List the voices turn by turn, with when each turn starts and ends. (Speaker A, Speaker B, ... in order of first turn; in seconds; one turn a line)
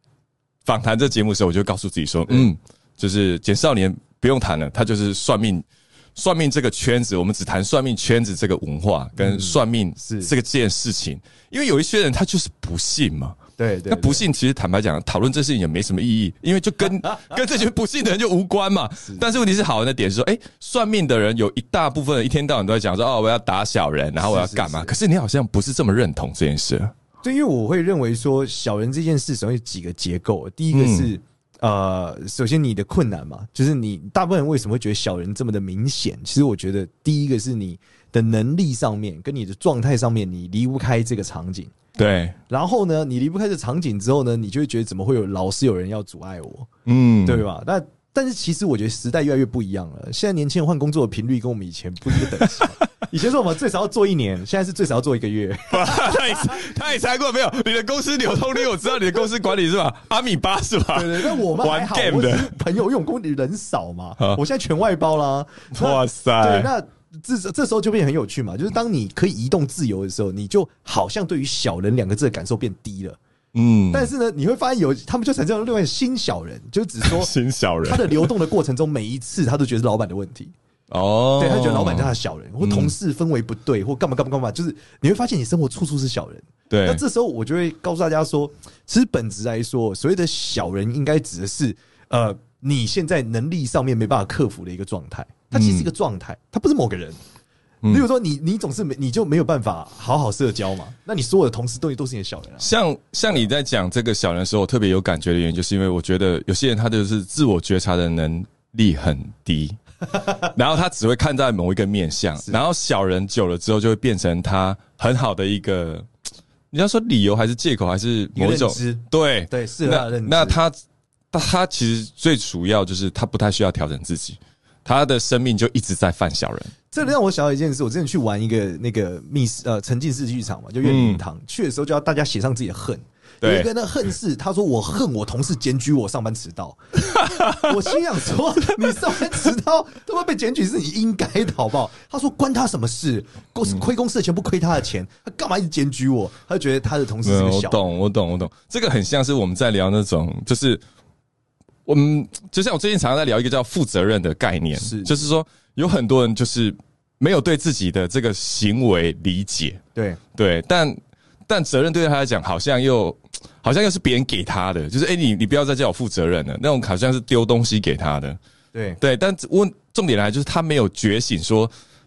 Speaker A: 0.7-26.9
Speaker B: 9.2-10.3
Speaker B: 13.6-14.2
Speaker B: 24.2-24.9
Speaker B: 27.2-41.7
Speaker A: 30.7-31.1
Speaker A: 42.0-42.4
Speaker B: 42.5-46.7
Speaker A: 46.9-47.5
Speaker B: 47.2-56.6
Speaker A: 52.4-52.9
Speaker A: 55.7-62.5
Speaker B: 60.9-73.2
Speaker A: 65.7-66.7
Speaker A: 73.5-74.1
Speaker B: 73.9-77.3
Speaker A: 77.0-78.3
Speaker B: 77.8-80.5
Speaker A: 80.9-82.9
Speaker B: 81.4-97.2
Speaker A: 86.7-87.0
Speaker A: 95.5-95.9
Speaker B: 97.9-102.7
Speaker A: 102.6-116.1
Speaker A: 116.7-120.8
Speaker B: 118.3-120.6
Speaker A: 121.3-126.7
Speaker B: 126.9-147.8
Speaker A: 130.8-131.2
Speaker A: 133.4-133.7
Speaker A: 137.1-137.7
Speaker A: 147.2-150.8
Speaker A: 151.9-159.8
Speaker B: 154.8-155.2
Speaker B: 159.9-160.2
Speaker A: 160.3-168.4
Speaker A: 169.0-171.7